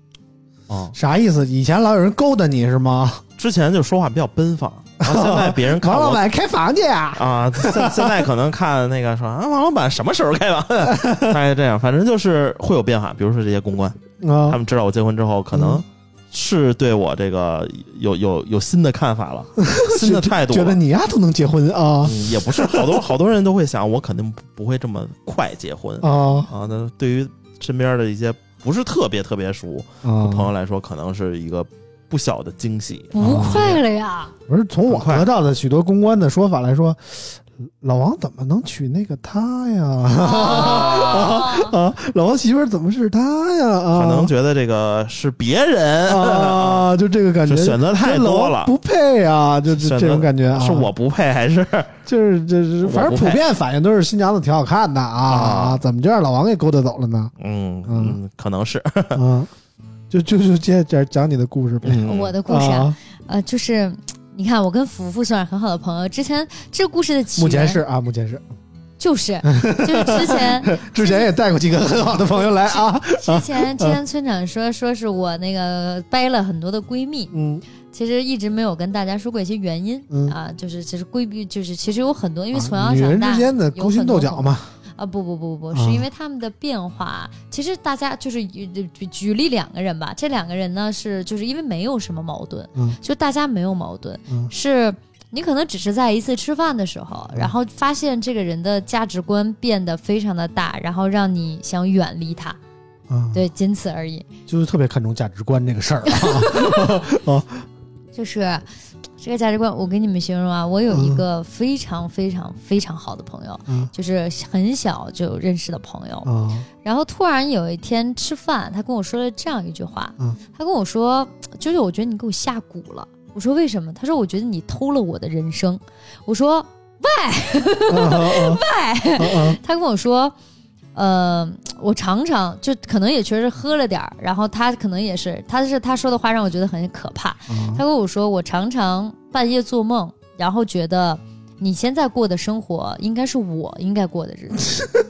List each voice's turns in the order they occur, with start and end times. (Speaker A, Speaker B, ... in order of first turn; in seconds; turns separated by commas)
Speaker A: 0.7-0.9, Speaker B: 0.9-3.2, Speaker A: 3.4-6.2, Speaker B: 5.0-8.2, Speaker A: 7.2-20.8, Speaker B: 10.8-11.4, Speaker B: 14.2-14.6, Speaker B: 15.5-15.8, Speaker B: 19.6-23.0, Speaker A: 22.0-33.8, Speaker B: 26.0-26.5, Speaker B: 30.0-30.5, Speaker C: 33.1-34.3, Speaker B: 33.2-33.7, Speaker B: 34.5-44.3, Speaker A: 34.9-35.3, Speaker C: 40.2-41.7, Speaker A: 40.6-41.3, Speaker A: 43.9-46.9, Speaker B: 46.1-50.9, Speaker A: 47.5-48.7, Speaker A: 49.7-51.9, Speaker B: 52.1-57.3, Speaker A: 52.8-53.4, Speaker A: 55.3-55.8, Speaker A: 57.4-59.2, Speaker B: 57.9-58.2, Speaker B: 59.1-59.5, Speaker B: 60.1-63.0, Speaker A: 61.8-62.4, Speaker C: 62.1-67.8, Speaker B: 67.4-68.4, Speaker C: 69.0-71.3, Speaker B: 69.4-74.0, Speaker C: 72.4-77.3, Speaker B: 77.3-77.6, Speaker C: 77.9-102.6, Speaker B: 80.1-80.3, Speaker B: 82.5-84.7, Speaker B: 85.7-86.1, Speaker B: 103.1-103.4, Speaker C: 103.3-104.3, Speaker B: 104.5-107.7, Speaker C: 106.1-106.8, Speaker C: 108.2-108.7, Speaker C: 109.2-116.3, Speaker B: 110.9-111.2, Speaker B: 116.2-116.7, Speaker C: 116.8-130.3, Speaker B: 127.9-128.6, Speaker B: 129.2-129.6, Speaker C: 130.9-144.7, Speaker B: 137.5-137.8